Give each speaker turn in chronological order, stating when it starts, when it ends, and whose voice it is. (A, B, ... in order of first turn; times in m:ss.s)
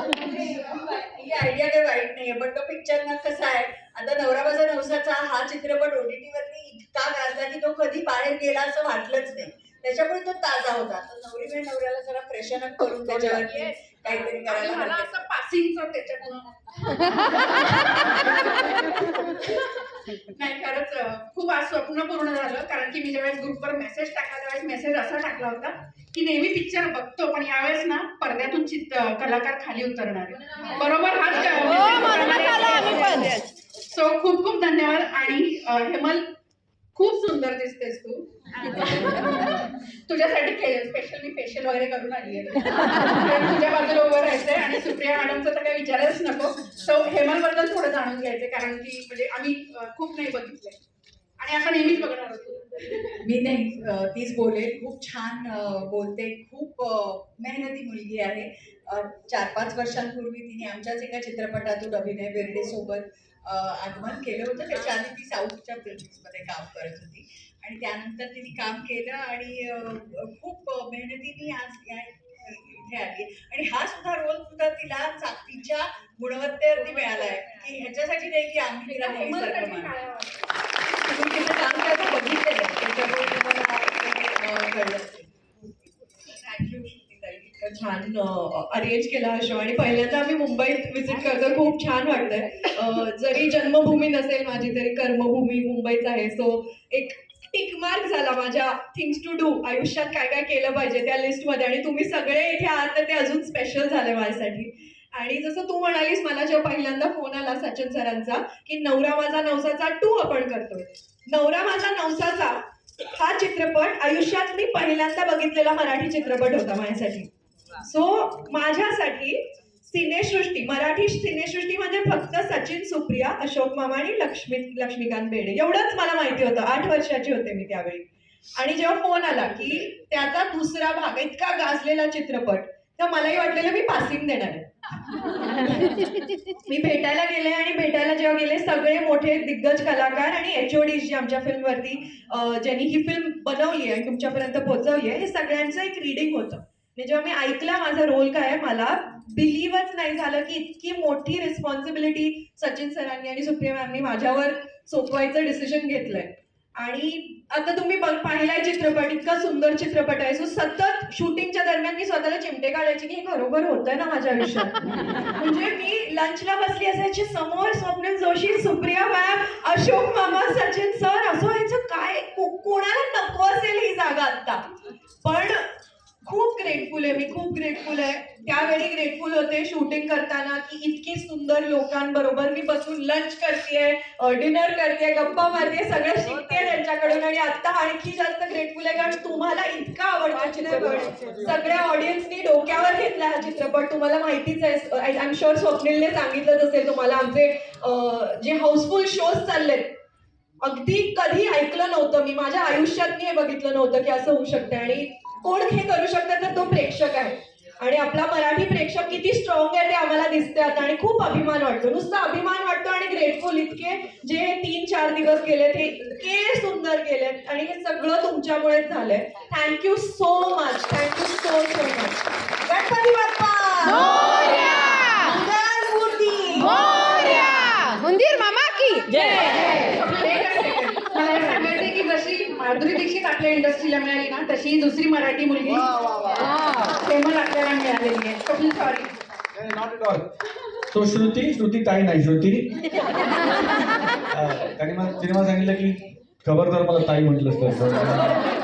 0:00.6-0:15.1 A
0:14.4-0:19.4 B
0:20.3-0:36.3 B
0:31.9-0:33.4 C
0:37.0-0:50.8 B
0:51.4-0:53.2 B
0:53.2-1:19.9 A
1:18.9-1:20.6 B
1:21.1-1:23.0 D
1:22.9-1:25.4 A
1:26.2-2:08.1 D
2:08.6-2:14.7 D
2:16.7-2:44.8 D
2:45.4-2:54.6 D
2:55.2-2:55.6 D
2:56.2-3:20.0 D
3:20.6-3:42.2 D
3:42.7-3:47.0 A
3:46.8-3:49.4 C
3:49.1-3:55.9 B
3:55.7-3:56.6 E
3:56.8-3:59.2 B
3:59.5-4:00.3 E
4:00.9-4:02.8 E
4:04.3-4:08.3 E